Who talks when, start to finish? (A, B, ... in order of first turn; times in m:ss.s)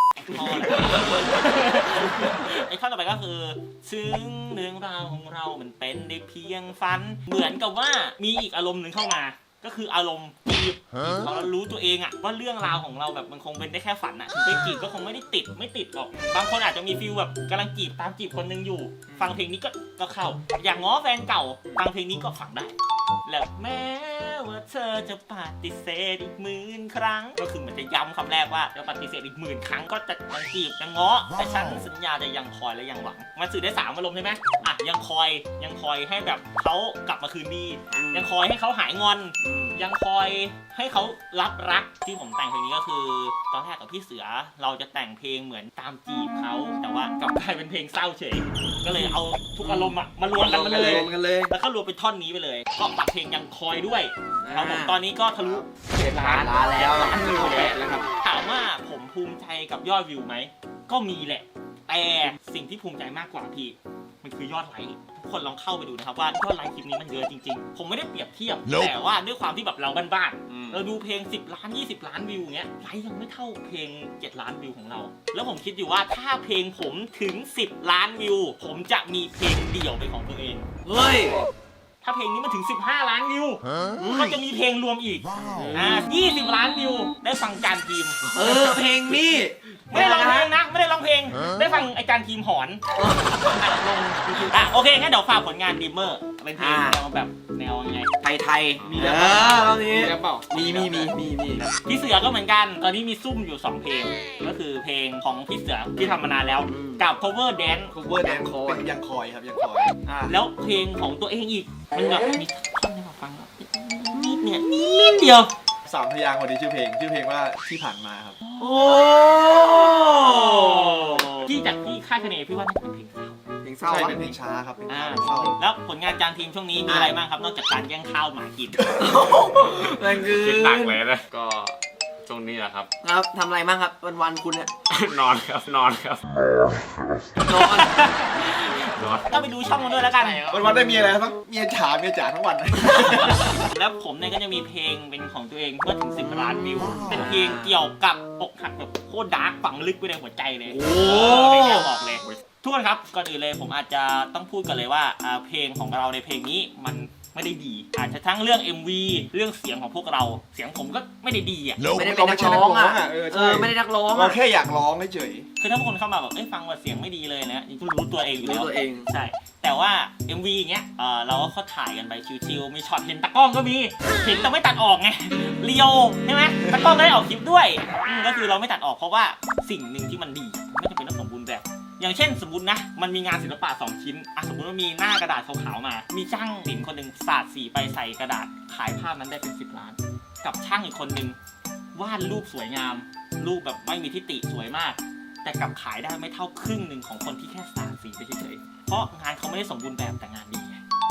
0:00.2-1:20.7 A
0:37.9-0:38.3 B
0:39.4-0:39.8 B
0:49.6-0:51.5 C
0:50.7-0:51.2 B
0:54.4-0:55.0 B
0:56.0-0:57.7 B
0:57.1-0:58.0 C
1:10.5-1:10.8 D
1:20.8-1:21.5 B
1:22.0-1:29.2 A
1:23.9-1:24.4 B
1:25.4-1:26.0 B
1:28.3-1:30.5 B
1:29.9-1:38.1 A
1:33.0-1:34.5 B
1:36.6-1:37.0 B
1:38.2-1:41.7 B
1:38.8-1:39.1 D
1:38.8-1:41.1 C
1:41.7-1:47.9 A
1:46.6-1:47.0 B
1:47.9-1:50.3 C
1:48.2-1:48.9 B
1:50.2-1:55.5 A
1:55.8-1:58.4 C
1:58.6-2:01.4 B
2:00.3-2:03.4 A
2:03.6-2:04.4 B
2:03.8-2:05.6 C
2:04.9-2:08.8 A
2:06.9-2:07.2 B
2:09.0-2:11.0 B
2:09.9-2:12.9 D
2:13.0-2:14.7 B
2:14.9-2:16.2 D
2:17.4-2:20.4 A
2:17.5-2:18.0 B
2:18.9-2:19.3 D
2:19.9-2:20.7 B
2:20.5-2:23.6 C
2:23.0-2:41.9 A
2:26.5-2:27.7 B
2:30.7-2:31.9 B
2:41.9-2:45.5 C
2:41.9-2:44.4 B
2:45.6-3:11.4 A
2:48.4-2:49.1 B
3:11.9-3:20.8 A